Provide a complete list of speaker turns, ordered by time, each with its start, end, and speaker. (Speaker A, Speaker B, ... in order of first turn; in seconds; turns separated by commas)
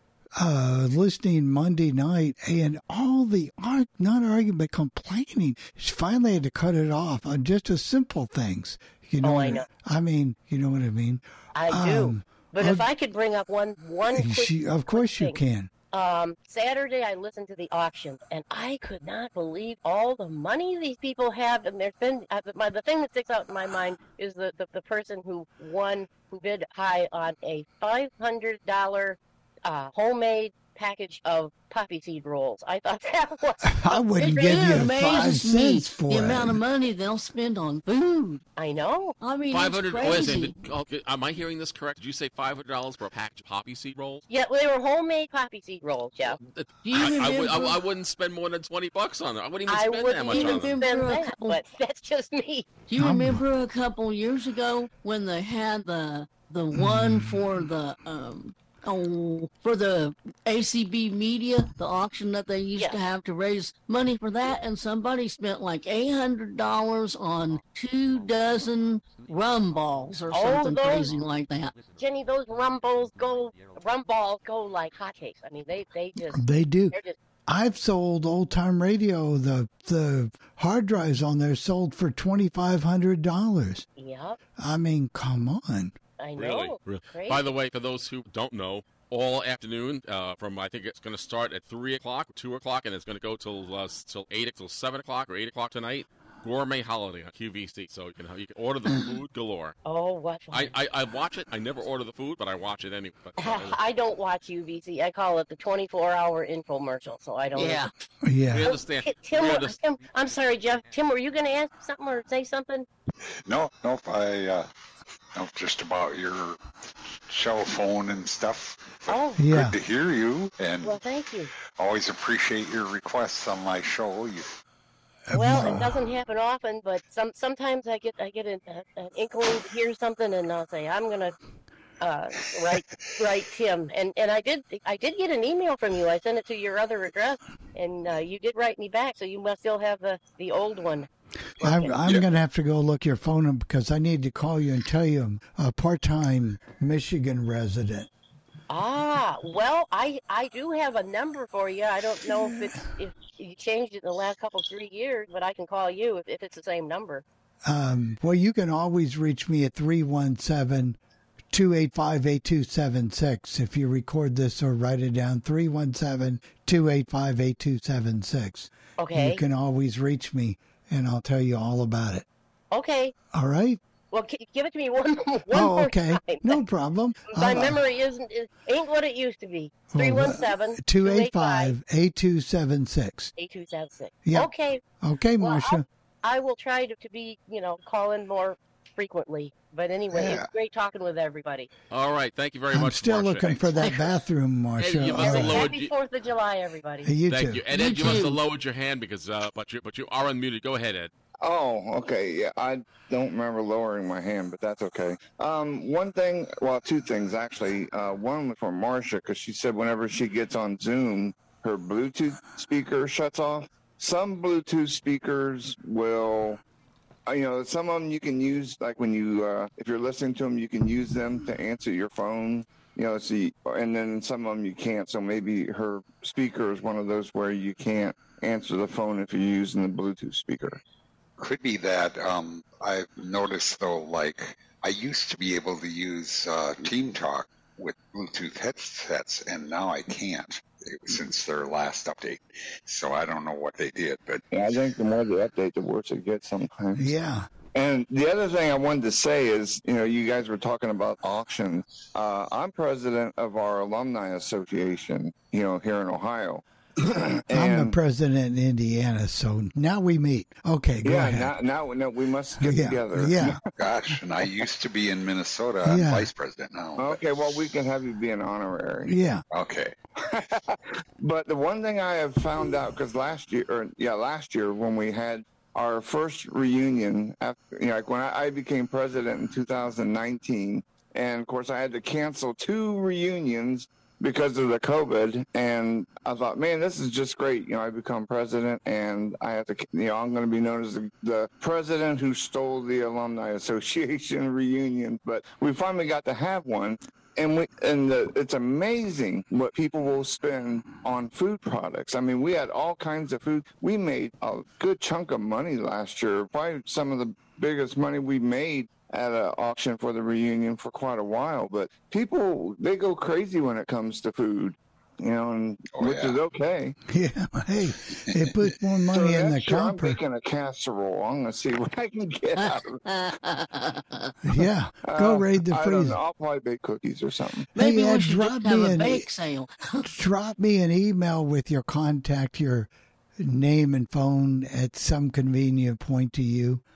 Speaker A: 0.3-12.9, Speaker B: 9.2-9.7, Speaker B: 11.5-15.4, Speaker A: 14.1-15.7, Speaker B: 15.9-34.9, Speaker A: 33.6-36.6, Speaker C: 34.5-38.4, Speaker B: 38.6-39.1, Speaker C: 39.2-40.5, Speaker D: 39.5-44.2, Speaker B: 44.3-46.4, Speaker D: 46.5-50.8, Speaker C: 46.8-47.8, Speaker B: 49.7-52.7, Speaker C: 50.3-51.6, Speaker C: 52.9-71.8, Speaker A: 53.0-53.4, Speaker A: 56.7-57.4, Speaker B: 70.3-71.1, Speaker B: 71.9-77.2, Speaker A: 76.3-83.8, Speaker B: 84.0-84.4, Speaker A: 84.6-85.9, Speaker B: 86.2-87.5, Speaker D: 86.3-99.7, Speaker B: 99.8-100.7, Speaker D: 100.5-103.8, Speaker B: 103.4-107.8, Speaker C: 107.5-107.9, Speaker A: 108.2-108.7, Speaker D: 108.5-109.8, Speaker B: 108.6-112.8, Speaker E: 113.4-114.7, Speaker E: 115.3-116.6, Speaker E: 117.3-121.0, Speaker B: 119.1-119.5, Speaker A: 119.4-119.8, Speaker B: 120.8-121.5, Speaker E: 121.5-124.5, Speaker A: 125.3-125.9, Speaker B: 125.3-131.3, Speaker B: 132.0-141.1, Speaker E: 132.7-133.1, Speaker A: 141.6-148.1, Speaker B: 141.6-141.9, Speaker B: 148.7-157.2, Speaker A: 157.6-161.0, Speaker A: 161.5-172.2, Speaker B: 169.0-169.4, Speaker B: 172.7-173.1, Speaker A: 173.3-173.8, Speaker B: 174.1-176.6, Speaker A: 175.5-177.8, Speaker B: 177.3-181.7, Speaker A: 179.9-183.3, Speaker B: 183.4-184.8, Speaker A: 184.2-185.8, Speaker B: 185.4-191.7, Speaker E: 190.2-190.4, Speaker D: 191.9-193.7, Speaker A: 192.7-195.7, Speaker C: 193.8-194.1, Speaker D: 194.8-195.9, Speaker B: 195.1-197.1, Speaker A: 197.0-198.2, Speaker D: 197.3-201.1, Speaker C: 197.7-198.4, Speaker F: 201.4-216.6, Speaker F: 217.3-230.8, Speaker E: 231.4-244.8, Speaker F: 244.5-247.2, Speaker A: 247.0-247.5, Speaker F: 247.7-257.9, Speaker A: 257.5-261.5, Speaker F: 261.0-263.6, Speaker A: 262.6-263.6, Speaker E: 263.8-267.5, Speaker A: 265.8-266.3, Speaker F: 267.0-269.1, Speaker A: 269.1-269.4, Speaker E: 269.5-269.9, Speaker F: 270.2-316.9, Speaker E: 315.9-316.4, Speaker A: 317.1-320.2, Speaker F: 319.1-323.0, Speaker C: 322.6-324.3, Speaker A: 324.4-326.1, Speaker F: 325.0-327.7, Speaker C: 327.7-330.2, Speaker A: 327.8-329.3, Speaker A: 330.1-336.8